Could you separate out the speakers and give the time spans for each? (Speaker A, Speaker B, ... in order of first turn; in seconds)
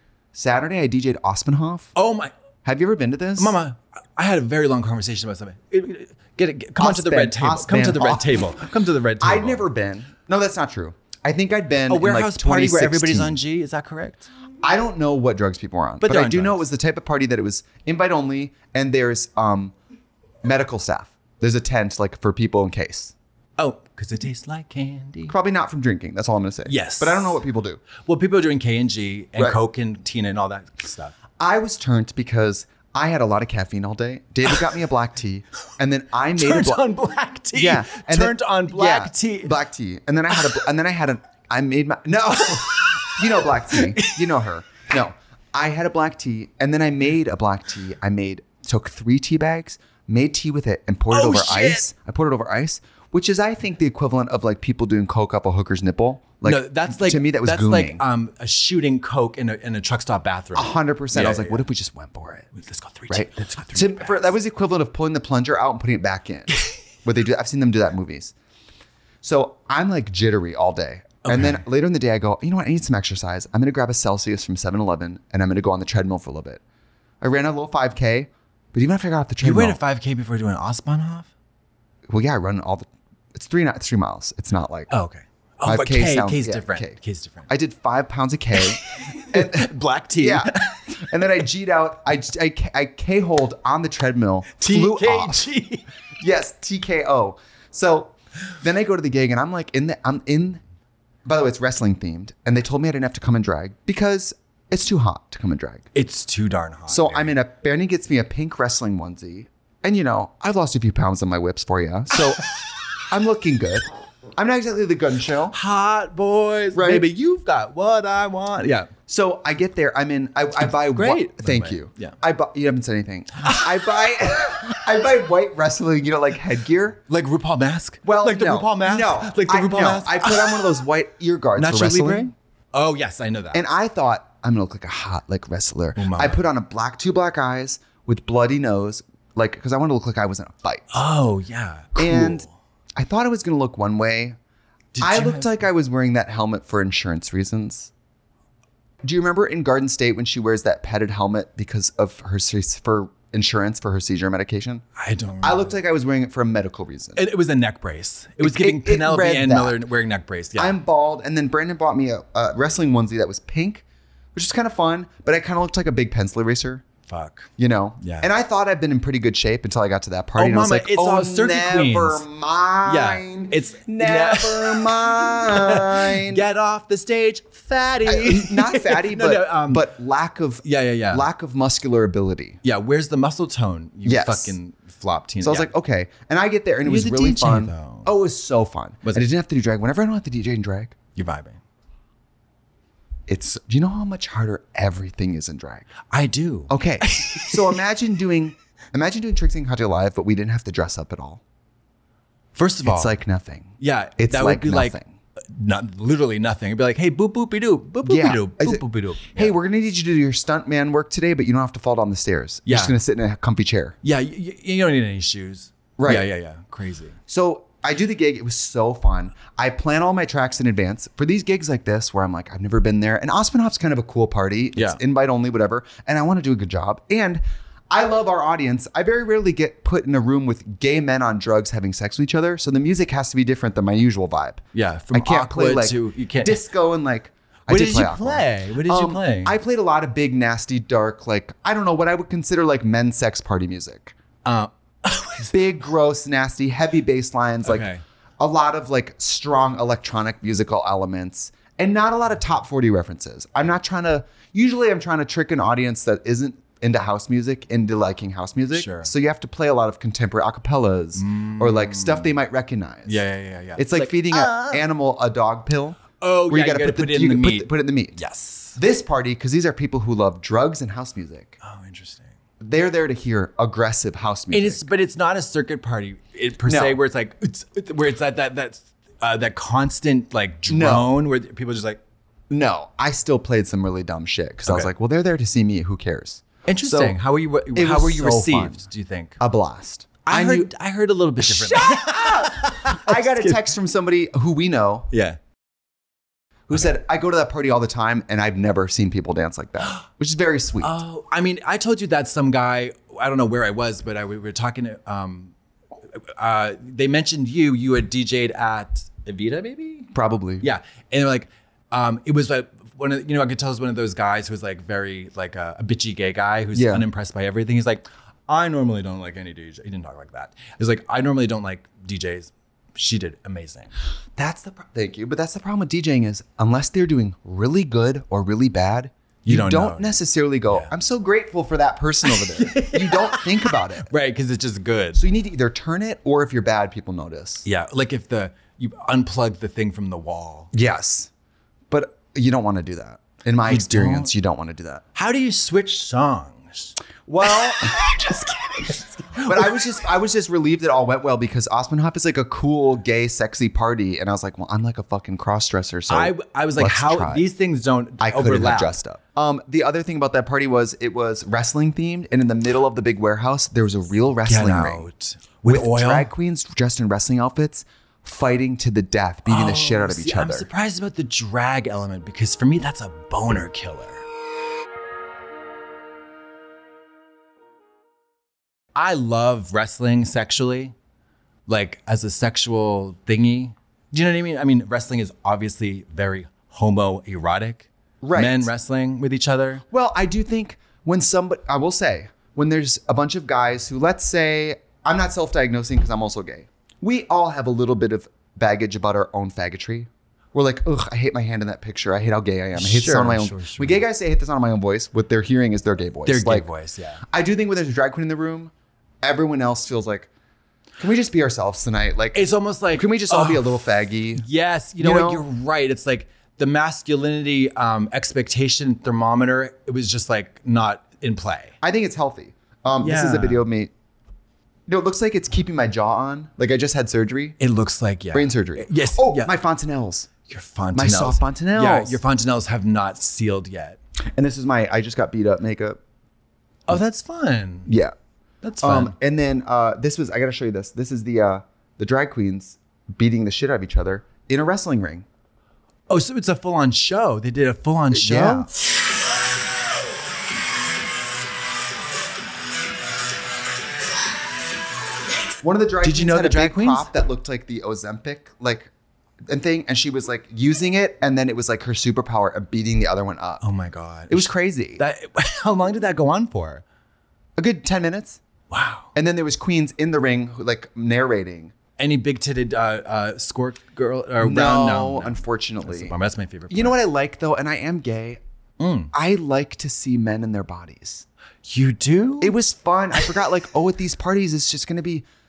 Speaker A: 0.3-1.9, 2.6-3.6, 6.8-8.4, 9.2-13.4, 14.6-19.7, 20.4-23.1, 25.3-27.8, 31.4-36.9, 37.5-58.0, 60.5-62.5, 63.1-68.3, 69.2-76.6, 77.2-79.8, 82.1-84.9, 85.6-95.5, 96.2-100.6, 101.2-105.8, 106.9-112.5, 113.1-115.5, 116.7-117.1, 119.1-127.0, 128.0-132.3, 133.5-140.9, 141.9-142.4, 143.0-144.4, 145.0-147.9, 149.0-154.8, 155.4-157.2, 158.4-159.8, 160.6-166.8, 167.6-176.4, 178.1-182.6, 184.0-184.6, 185.4-191.0, 193.3-195.9, 196.7-201.4, 202.8-205.1, 208.0-214.0, 216.0-216.3, 217.3-244.2, 245.5-247.9, 248.4-263.2, 263.8-268.2, 268.7-271.6, 272.6-274.8, 276.6-277.0, 280.7-281.1, 282.5-287.2, 287.7-288.8, 289.4-290.7, 291.4-295.1, 296.7-301.0, 310.1-310.7, 316.7-317.1, 324.4-334.1, 335.1-337.6, 340.7-341.3, 341.9-345.0, 347.3-348.3, 349.4-357.4, 358.2-365.0, 365.6-370.7, 388.2-388.7, 389.9-406.7, 407.3-410.3, 411.0-414.4, 415.0-415.4, 421.8-423.9, 424.9-427.6, 428.3-430.3, 430.9-432.2, 434.3-436.0, 437.9-438.1, 438.8-445.2, 448.1-448.7, 455.6-458.9, 459.5-463.7, 464.3-465.0, 467.6-468.4, 469.1-471.7, 474.4-476.1, 476.7-478.4, 479.1-481.2, 482.4-485.2
Speaker B: 1.9-2.3, 3.4-9.7, 11.9-14.2, 16.0-16.6, 23.6-25.3, 26.7-27.4, 28.0-31.1, 36.4-39.5, 40.3-40.6, 42.4-44.3, 51.1-51.9, 56.4-61.6, 62.5-64.3, 71.2-71.6, 79.4-81.3, 84.9-87.5, 88.5-90.8, 94.6-95.8, 105.9-107.3, 115.5-118.9, 120.5-122.1, 123.4-124.3, 127.1-130.7, 131.6-133.6, 135.9-136.4, 140.9-142.5, 144.9-145.5, 154.9-155.7, 157.2-160.8, 167.1-168.3, 170.3-172.2, 172.8-179.9, 180.6-181.3, 182.6-185.7, 186.8-188.1, 191.1-191.6, 196.1-197.8, 202.5-203.1, 203.8-205.0, 205.5-209.6, 212.7-212.9, 214.0-217.2, 234.7-236.6, 237.7-239.6, 244.4-245.5, 247.6-248.0, 258.7-259.1, 261.1-262.3, 263.1-264.9, 266.2-268.8, 271.6-272.3, 274.5-282.0, 286.7-289.4, 290.2-293.7, 295.1-295.4, 300.8-305.5, 306.1-310.1, 310.6-323.9, 329.4-330.2, 332.2-335.2, 337.6-340.7, 343.7-344.3, 345.1-349.9, 356.1-359.0, 364.4-366.3, 369.4-374.2, 378.9-380.9, 381.7-389.8, 402.7-404.1, 406.2-407.2, 412.3-413.8, 414.4-421.7, 423.0-423.6, 427.6-429.5, 430.5-434.0, 436.9-437.9, 438.6-439.1, 446.1-448.7, 456.0-457.1, 463.6-466.8, 468.7-469.1, 472.0-477.0, 478.8-479.1, 481.6-482.6